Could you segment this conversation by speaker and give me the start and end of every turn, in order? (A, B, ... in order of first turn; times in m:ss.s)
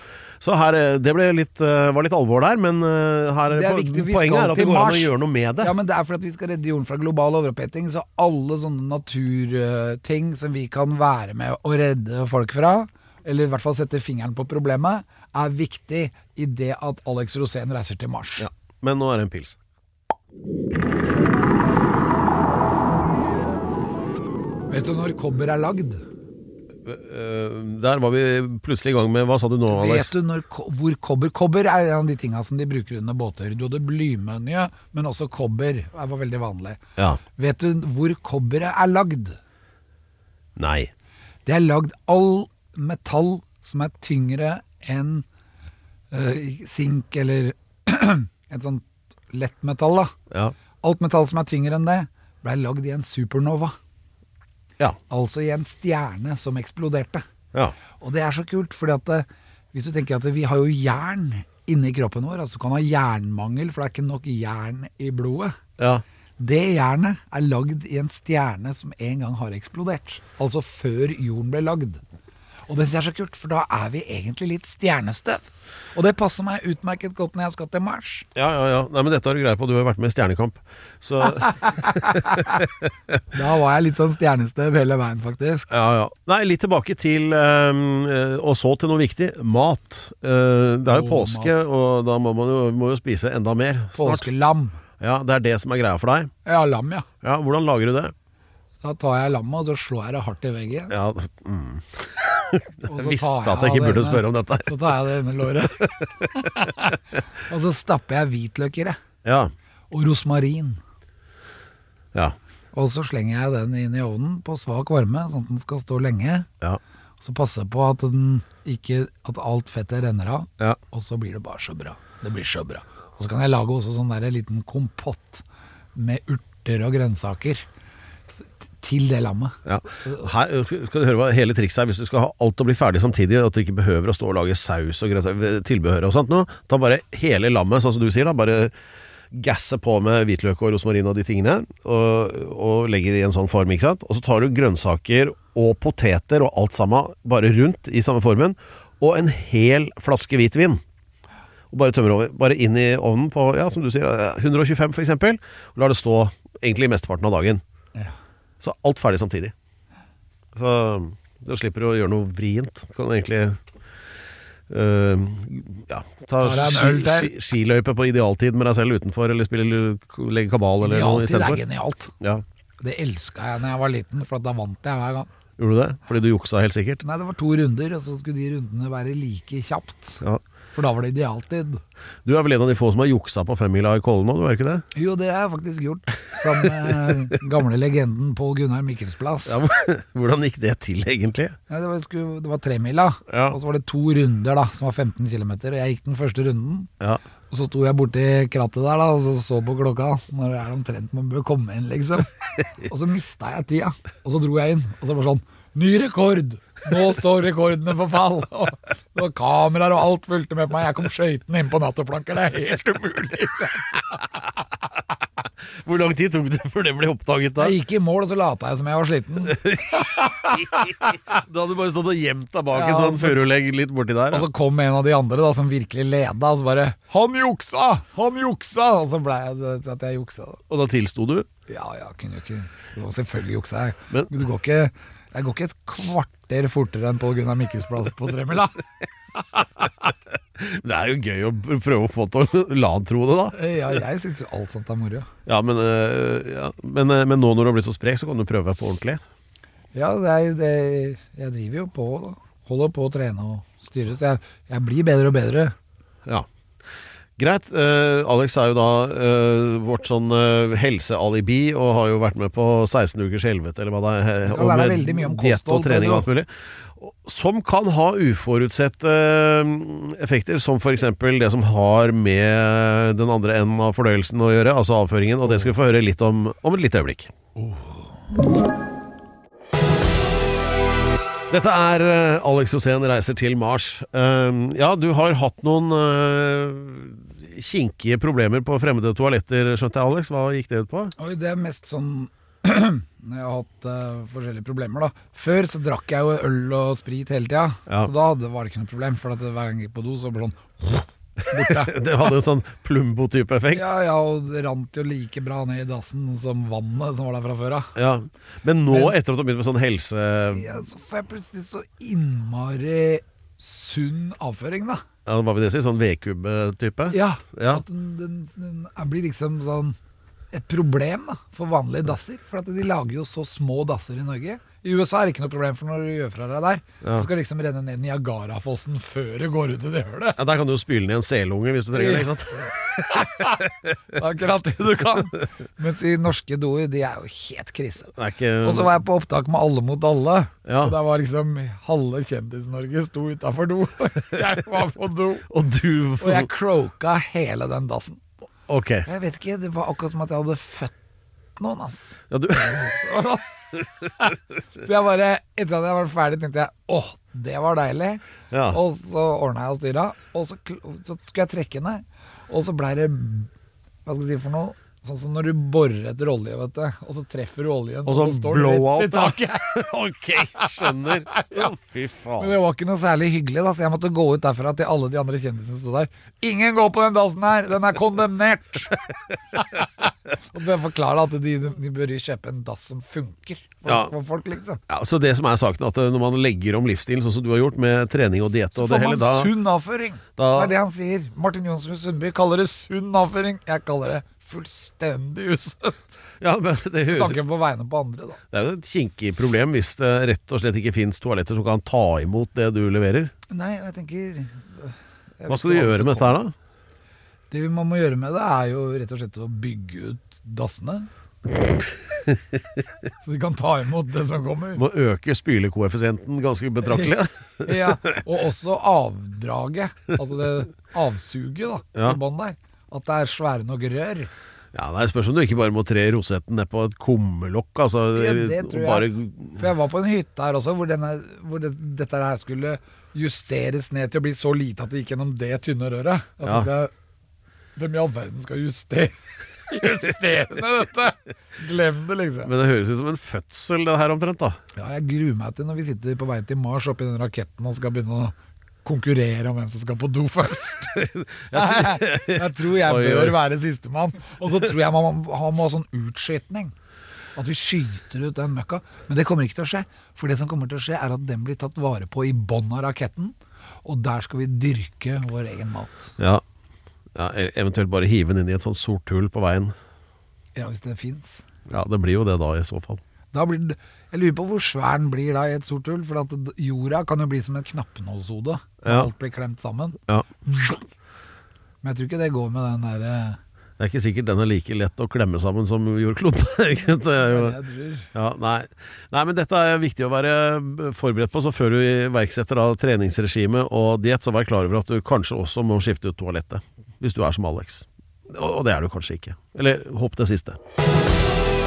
0:00.4-0:05.7 A
0:03.5-0:18.5 B
0:18.4-0:19.6 A
0:24.7-0:26.0 B
0:26.8-0:30.1 A
0:29.7-0:36.8 B
0:37.4-0:39.4 B
0:40.6-0:40.9 A
0:41.5-0:45.3 B
0:46.1-0:50.1 B
0:50.8-0:53.8 B
0:55.1-0:57.2 B
0:58.0-1:05.6 B
1:06.4-1:12.0 B
1:12.7-1:18.3 B
1:18.4-1:23.2 A
1:21.3-1:22.5 B
1:23.3-1:25.7 B
1:25.7-1:34.3 A
1:30.9-1:31.6 B
1:34.0-1:34.8 B
1:35.0-1:36.3 A
1:36.4-1:37.1 B
1:37.2-1:38.1 A
1:38.8-1:40.9 B
1:40.9-1:45.0 A
1:42.8-1:49.0 B
1:49.2-1:49.5 A
1:49.9-1:50.8 B
1:52.7-1:56.5 B
1:57.2-2:05.4 B
2:06.0-2:07.6 B
2:08.3-2:10.3 B
2:09.7-2:18.7 A
2:19.3-2:30.8 A
2:31.7-2:37.6 A
2:38.6-2:39.5 A
2:40.5-2:43.6 A
2:44.7-2:51.6 A
2:46.4-2:47.3 B
2:50.8-2:52.1 B
2:52.8-2:55.3 B
2:55.6-2:57.0 A
2:57.0-3:01.8 B
3:02.2-3:04.8 A
3:04.9-3:09.6 B
3:06.8-3:07.1 A
3:09.5-3:11.6 A
3:11.7-3:16.9 B
3:13.3-3:13.6 A
3:17.5-3:34.2 B
3:35.7-3:37.8 A
3:37.6-3:40.9 B
3:39.5-3:44.5 A
3:42.7-3:43.4 B
3:44.3-3:50.6 B
3:50.7-3:51.5 A
3:51.7-3:58.8 B
3:59.6-4:03.6 A
4:03.5-4:05.3 B
4:05.5-4:09.2 A
4:09.9-4:15.8 B
4:17.4-4:37.3 A
4:24.5-4:26.3 B
4:37.6-4:38.0 B
4:41.5-4:51.1 A
4:51.2-5:02.0 B
5:01.5-5:03.9 A
5:03.7-5:07.9 B
5:08.0-5:10.7 A
5:08.9-5:09.2 B
5:10.5-5:15.0 B
5:15.3-5:17.8 A
5:17.1-5:20.0 B
5:20.5-5:30.4 B
5:30.4-5:33.9 A
5:31.9-5:45.5 B
5:38.2-5:38.9 A
5:40.7-5:41.0 A
5:45.5-5:46.5 A
5:46.2-5:48.2 B
5:48.7-5:49.1 A
5:49.1-5:50.9 B
5:51.6-5:53.5 B
5:52.3-5:52.9 A
5:54.2-6:03.5 B
5:58.5-5:58.8 A
6:04.0-6:09.9 B
6:08.1-6:12.6 A
6:10.5-6:11.7 B
6:12.4-6:19.0 B
6:19.6-6:19.9 B
6:20.4-6:24.8 B
6:23.9-6:24.1 A
6:24.9-6:29.5 A
6:28.7-6:36.2 B
6:30.4-6:30.7 A
6:36.4-6:37.4 A
6:37.1-6:38.4 B
6:38.5-6:43.3 A
6:43.5-6:46.4 B
6:45.5-6:46.5 A
6:47.5-6:51.1 B
6:53.2-6:54.8 B
6:54.8-6:58.2 A
6:56.8-7:04.3 B
7:04.7-7:09.6 A
7:08.1-7:16.9 B
7:16.4-7:16.7 A
7:17.8-7:22.5 B
7:22.4-7:24.6 A
7:24.8-7:31.0 B
7:30.9-7:33.4 A
7:31.5-7:36.7 B
7:37.4-7:46.2 B
7:46.2-7:46.4 A
7:47.2-7:49.8 A
7:50.6-7:51.4 B
7:51.7-7:53.0 A
7:53.3-8:00.8 B
7:58.8-7:59.1 A
8:01.8-8:03.4 B
8:03.8-8:07.6 A
8:06.9-8:08.1 B
8:08.1-8:20.6 A